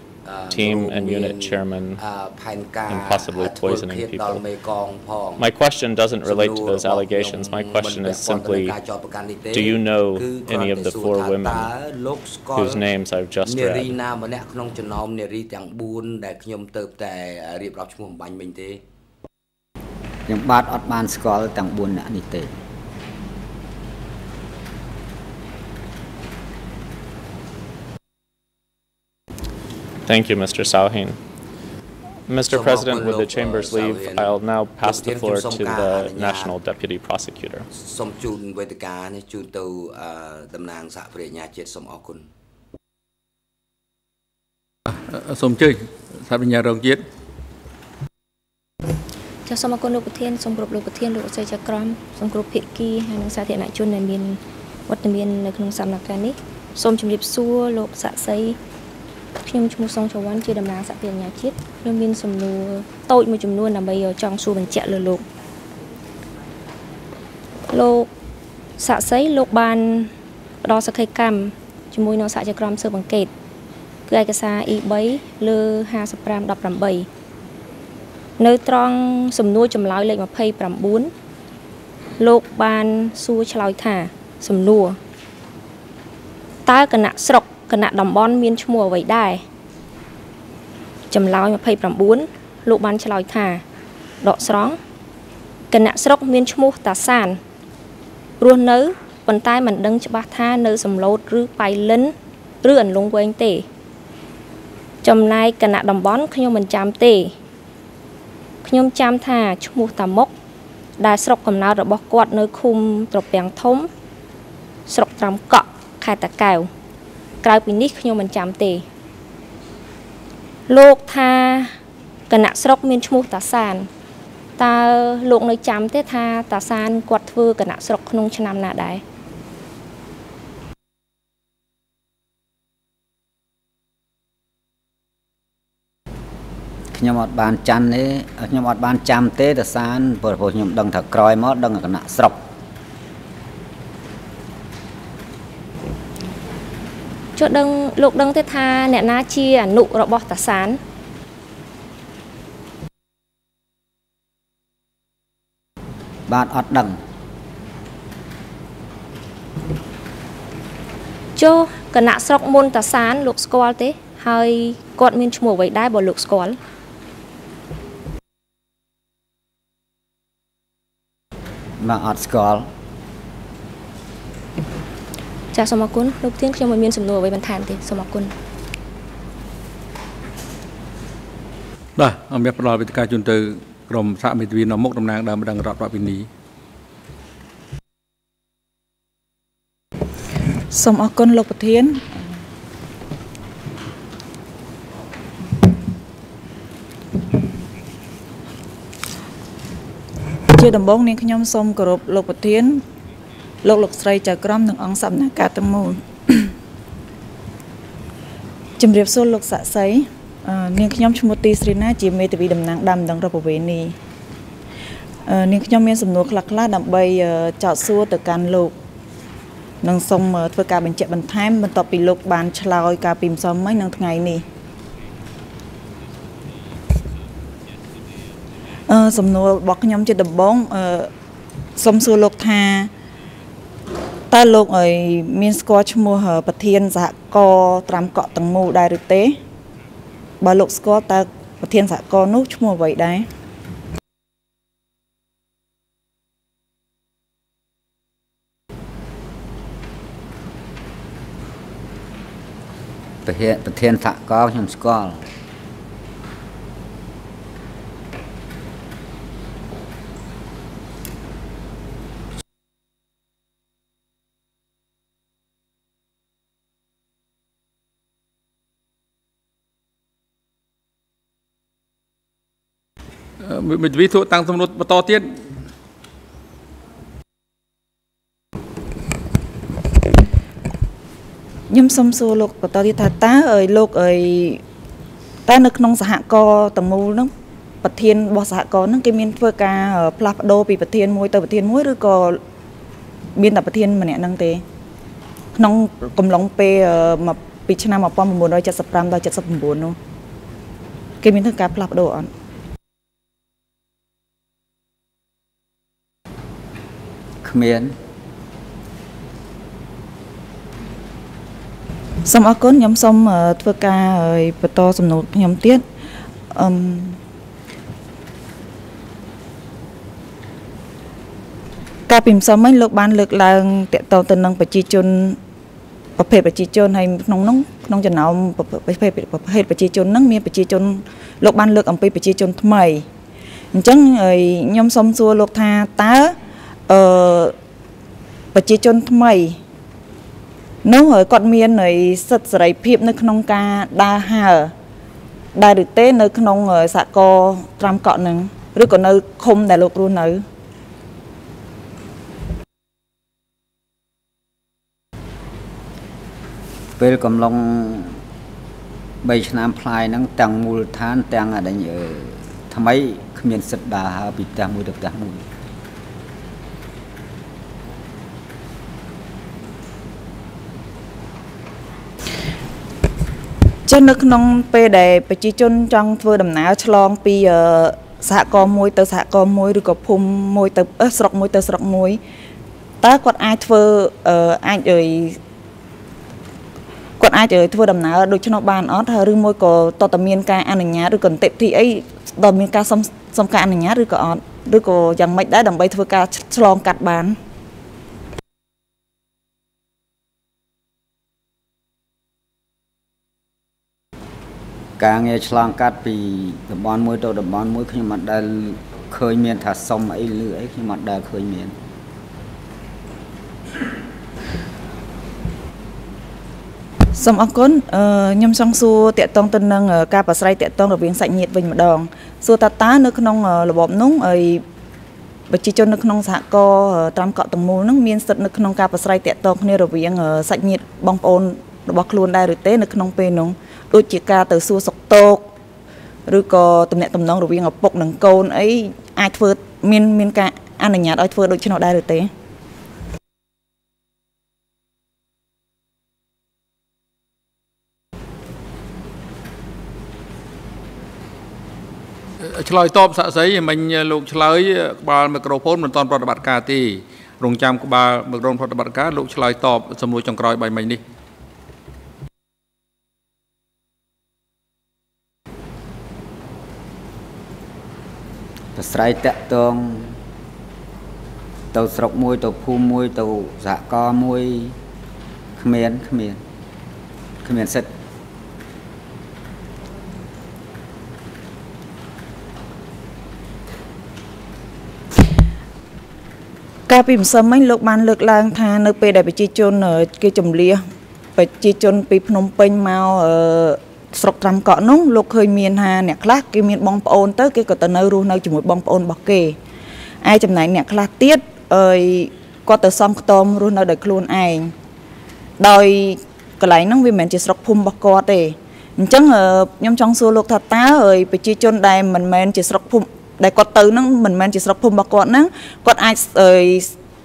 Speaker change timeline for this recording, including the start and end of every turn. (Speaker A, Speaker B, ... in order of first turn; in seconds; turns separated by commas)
Speaker A: 0.2-5.5, Speaker B: 0.5-2.0, Speaker B: 2.9-4.4, Speaker B: 5.4-8.7, Speaker A: 6.2-12.8, Speaker B: 9.5-11.7, Speaker B: 12.6-13.9, Speaker A: 13.4-18.8, Speaker C: 20.3-22.5, Speaker B: 30.1-31.2, Speaker B: 32.3-37.7, Speaker A: 32.5-36.5, Speaker A: 37.7-42.2, Speaker D: 44.9-47.0, Speaker E: 49.5-58.6, Speaker E: 59.4-65.2, Speaker E: 67.7-68.1, Speaker E: 68.8-70.1, Speaker E: 70.6-73.3, Speaker E: 74.1-77.1, Speaker E: 78.4-81.1, Speaker E: 82.2-85.0, Speaker E: 86.7-89.4, Speaker E: 91.1-93.6, Speaker E: 94.2-94.8, Speaker E: 95.7-97.4, Speaker E: 98.4-103.7, Speaker E: 105.0-107.3, Speaker E: 108.6-110.3, Speaker E: 111.0-113.9, Speaker E: 114.9-116.7, Speaker E: 117.4-118.8, Speaker E: 120.7-121.7, Speaker E: 122.3-123.9, Speaker E: 124.6-129.0, Speaker C: 136.9-142.4, Speaker E: 147.3-150.8, Speaker C: 156.3-157.0, Speaker E: 161.3-166.6, Speaker C: 171.8-172.7, Speaker E: 175.5-178.3, Speaker D: 182.0-186.3, Speaker F: 190.7-192.1, Speaker F: 200.5-202.8, Speaker F: 203.6-206.5, Speaker F: 208.8-213.9, Speaker F: 215.2-218.7, Speaker F: 219.8-224.4, Speaker F: 228.9-231.1, Speaker F: 231.8-232.9, Speaker F: 234.3-239.4, Speaker F: 240.4-243.3, Speaker C: 253.2-255.2, Speaker D: 273.4-275.4, Speaker F: 281.7-284.6, Speaker F: 285.5-287.3, Speaker F: 287.8-292.4, Speaker F: 293.4-294.6, Speaker F: 295.5-300.0, Speaker F: 301.2-302.3, Speaker C: 307.4-307.9, Speaker F: 312.2-315.8, Speaker F: 316.5-317.2, Speaker F: 322.1-325.4, Speaker F: 326.2-333.1, Speaker F: 333.7-336.4, Speaker F: 336.9-337.5, Speaker F: 338.5-339.6, Speaker F: 340.8-344.7, Speaker F: 345.6-350.4, Speaker C: 357.0-358.1, Speaker C: 359.2-365.4, Speaker F: 373.9-382.2, Speaker F: 383.0-385.4, Speaker F: 387.2-397.4, Speaker C: 405.0-411.8, Speaker F: 417.1-424.6, Speaker F: 425.5-435.5, Speaker F: 436.3-442.3, Speaker D: 452.4-461.0, Speaker C: 468.8-470.1, Speaker C: 471.7-474.8, Speaker C: 475.6-476.4, Speaker C: 477.4-477.9, Speaker F: 486.9-490.8, Speaker F: 491.4-499.6, Speaker F: 500.2-504.7, Speaker F: 505.6-516.9